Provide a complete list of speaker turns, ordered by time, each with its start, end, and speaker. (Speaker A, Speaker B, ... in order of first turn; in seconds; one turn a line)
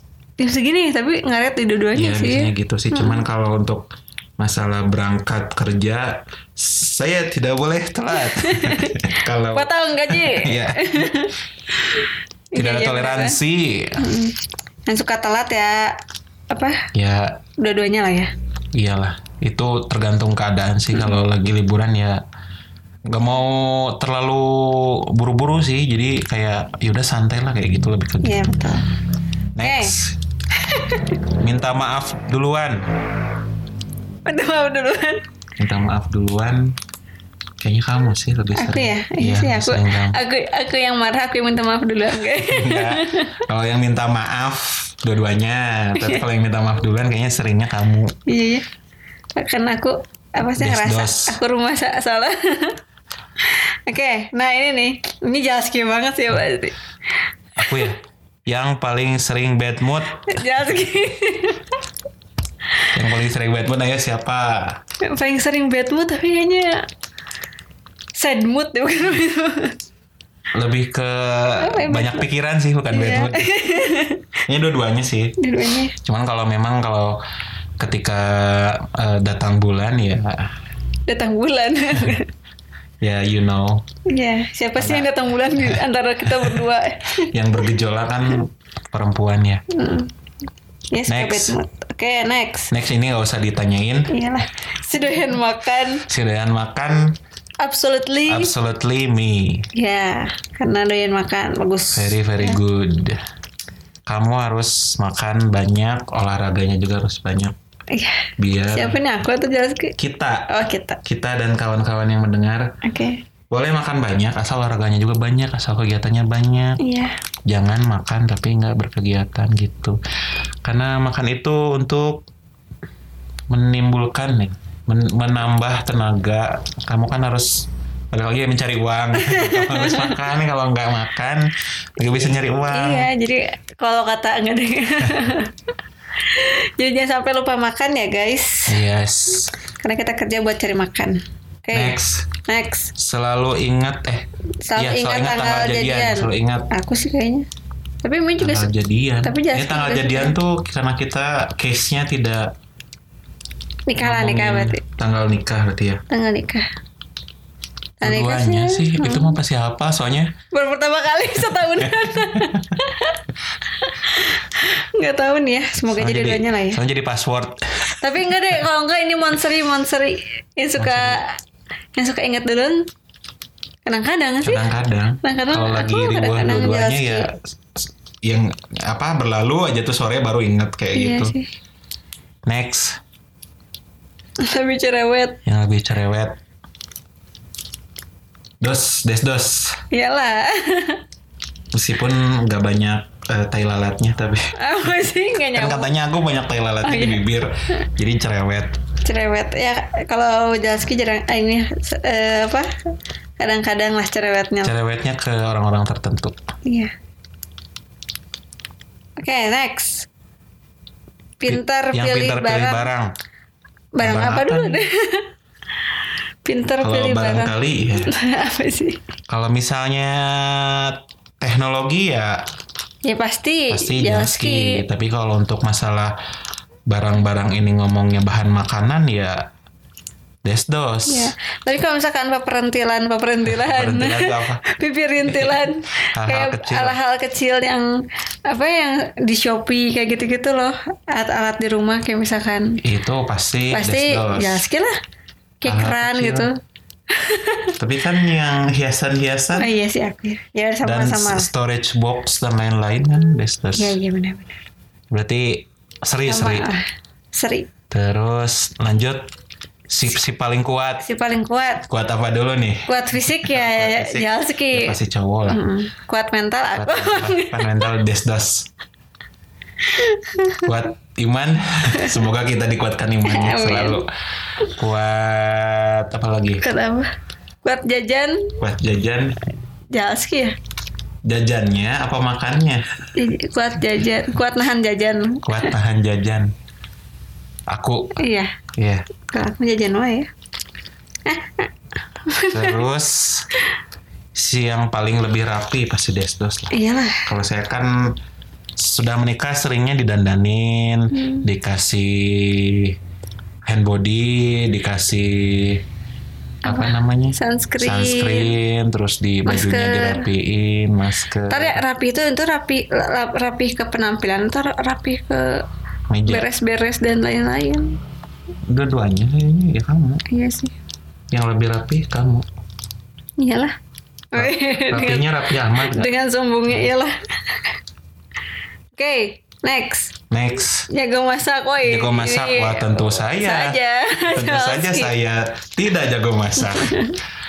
Speaker A: 0.4-3.2
Speaker B: 1.9-3.9
Speaker B: 4.4-11.2
Speaker A: 8.1-13.4
Speaker B: 12.6-14.0
Speaker A: 14.0-16.0
Speaker A: 16.5-16.9
Speaker B: 16.9-17.4
Speaker A: 17.6-18.3
Speaker B: 18.7-22.2
Speaker B: 23.1-28.4
Speaker A: 28.2-28.9
Speaker B: 29.6-30.2
Speaker A: 29.6-29.9
Speaker A: 30.6-31.1
Speaker B: 31.3-32.9
Speaker A: 34.3-35.2
Speaker B: 35.6-36.8
Speaker B: 37.6-40.2
Speaker A: 38.5-43.3
Speaker B: 42.4-48.1
Speaker A: 46.0-46.2
Speaker A: 48.3-48.7
Speaker A: 49.4-52.8
Speaker B: 50.6-51.4
Speaker A: 53.4-56.8
Speaker B: 57.6-60.3
Speaker A: 60.3-61.8
Speaker B: 62.9-64.8
Speaker A: 65.0-66.9
Speaker A: 68.2-69.8
Speaker B: 70.5-73.6
Speaker A: 71.6-72.3
Speaker A: 72.9-74.4
Speaker B: 74.5-75.4
Speaker A: 75.4-76.0
Speaker B: 76.0-77.2
Speaker B: 77.8-80.5
Speaker A: 81.1-82.3
Speaker B: 83.0-83.8
Speaker A: 84.1-87.3
Speaker B: 84.8-86.6
Speaker B: 87.3-89.6
Speaker A: 89.7-90.1
Speaker A: 90.9-92.7
Speaker B: 91.1-91.6
Speaker B: 92.7-94.1
Speaker A: 94.1-96.0
Speaker B: 96.1-97.2
Speaker A: 97.6-98.5
Speaker B: 98.3-99.7
Speaker A: 99.8-102.6
Speaker B: 102.0-103.2
Speaker B: 104.1-107.5
Speaker A: 107.9-110.0
Speaker B: 108.4-109.0
Speaker B: 110.0-110.5
Speaker A: 110.5-111.0
Speaker B: 111.0-112.7
Speaker A: 112.8-113.2
Speaker B: 113.5-116.8
Speaker A: 116.8-117.2
Speaker B: 117.5-120.0
Speaker B: 120.6-122.2
Speaker B: 123.5-133.1
Speaker A: 129.2-130.2
Speaker A: 132.7-135.7
Speaker A: 136.2-138.8
Speaker B: 138.7-139.5
Speaker A: 139.8-142.9
Speaker B: 141.7-142.3
Speaker B: 142.9-146.7
Speaker A: 144.7-147.5
Speaker A: 148.0-148.7
Speaker B: 148.4-152.5
Speaker A: 149.2-150.4
Speaker A: 153.9-154.8
Speaker B: 154.0-156.0
Speaker A: 156.1-156.7
Speaker A: 158.0-159.4
Speaker B: 158.0-160.3
Speaker A: 160.5-166.8
Speaker B: 162.3-162.6
Speaker B: 165.9-168.4
Speaker A: 168.0-171.4
Speaker B: 170.8-171.2
Speaker A: 172.0-172.9
Speaker A: 173.8-174.7
Speaker B: 174.4-181.3
Speaker A: 175.2-177.3
Speaker A: 180.9-181.5
Speaker B: 182.5-183.0
Speaker A: 184.4-185.4
Speaker B: 185.4-186.4
Speaker B: 188.6-189.8
Speaker A: 189.9-191.0
Speaker B: 191.7-194.5
Speaker A: 194.6-195.9
Speaker B: 195.5-198.8
Speaker A: 196.8-197.2
Speaker A: 199.0-202.7
Speaker A: 203.4-204.7
Speaker B: 204.6-206.4
Speaker A: 206.7-206.9
Speaker A: 209.2-210.1
Speaker A: 211.4-212.9
Speaker B: 211.5-213.1
Speaker A: 213.9-215.3
Speaker B: 214.0-214.8
Speaker A: 216.4-219.0
Speaker B: 216.8-218.1
Speaker B: 219.3-222.5
Speaker A: 223.0-224.8
Speaker B: 223.7-226.2
Speaker B: 226.9-229.4
Speaker B: 230.4-231.3
Speaker A: 231.1-237.9
Speaker B: 233.5-234.6
Speaker B: 236.1-237.0
Speaker A: 238.5-242.8
Speaker B: 242.8-244.6
Speaker A: 243.7-244.9
Speaker A: 245.6-246.5
Speaker B: 245.7-246.5
Speaker A: 247.1-247.8
Speaker B: 247.8-249.7
Speaker A: 249.6-251.5
Speaker B: 250.8-254.0
Speaker A: 253.8-254.6
Speaker B: 255.1-256.7
Speaker A: 256.3-257.7
Speaker B: 257.9-259.3
Speaker B: 259.9-261.0
Speaker A: 261.0-261.9
Speaker B: 261.9-265.6
Speaker A: 262.9-265.0
Speaker A: 265.5-267.8
Speaker B: 266.7-268.7
Speaker A: 269.9-270.7
Speaker B: 270.6-274.1
Speaker A: 273.3-274.0
Speaker B: 274.6-276.7
Speaker A: 276.6-277.1
Speaker A: 277.6-278.6
Speaker B: 278.6-279.4
Speaker A: 279.9-280.6
Speaker B: 281.3-282.8
Speaker A: 283.1-285.8
Speaker B: 285.4-286.5
Speaker B: 287.7-288.2
Speaker A: 288.2-288.6
Speaker B: 288.8-289.1
Speaker A: 289.3-290.3
Speaker A: 291.3-292.8
Speaker B: 292.5-293.5
Speaker B: 294.4-298.2
Speaker A: 296.7-297.3
Speaker B: 298.8-303.0
Speaker A: 301.1-301.5
Speaker B: 303.6-305.8
Speaker B: 306.6-311.8
Speaker A: 306.7-308.6
Speaker A: 309.5-310.3
Speaker A: 311.5-315.7
Speaker B: 316.1-316.5
Speaker A: 316.3-318.0
Speaker B: 318.7-320.2
Speaker A: 320.3-320.7
Speaker B: 321.3-322.5
Speaker A: 323.4-323.8
Speaker A: 324.3-327.7
Speaker B: 324.4-326.1
Speaker A: 329.0-330.2
Speaker B: 330.3-330.9
Speaker A: 330.9-335.1
Speaker B: 331.8-333.8
Speaker B: 334.3-337.2
Speaker A: 336.6-337.2